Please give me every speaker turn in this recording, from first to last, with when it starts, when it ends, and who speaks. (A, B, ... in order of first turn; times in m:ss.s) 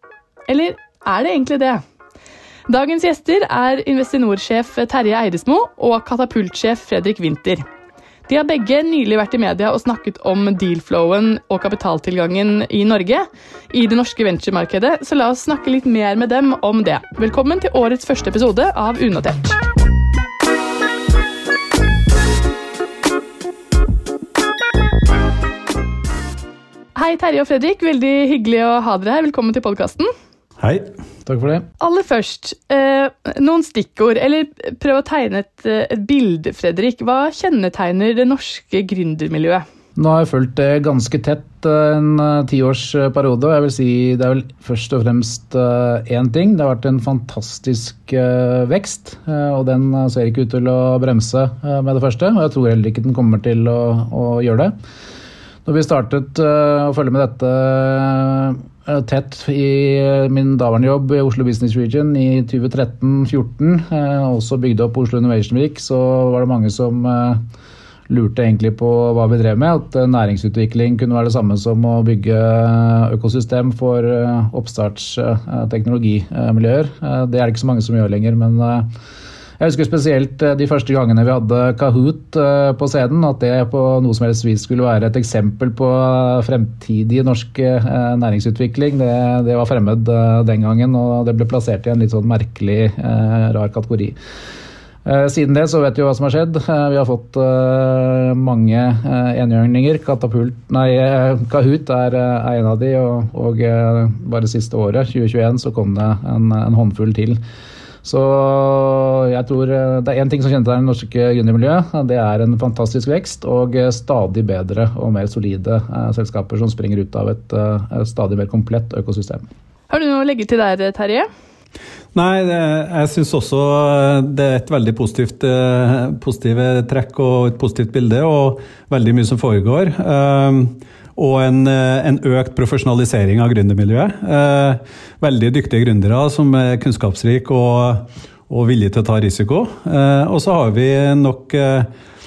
0:00.5-0:01.8 A
0:02.7-0:07.6 A
0:08.3-0:19.6 A
0:27.0-0:30.1 A
0:30.6-0:30.8 B
0:31.2-0:31.6 C
0:31.8-0:39.6 A
0:40.0-0:54.7 C
0:55.6-1:07.4 C
1:08.1-1:18.9 C
1:19.6-1:34.2 C
1:35.0-1:47.4 C
1:48.0-1:59.4 C
1:59.9-2:01.3 A
2:02.1-2:21.9 B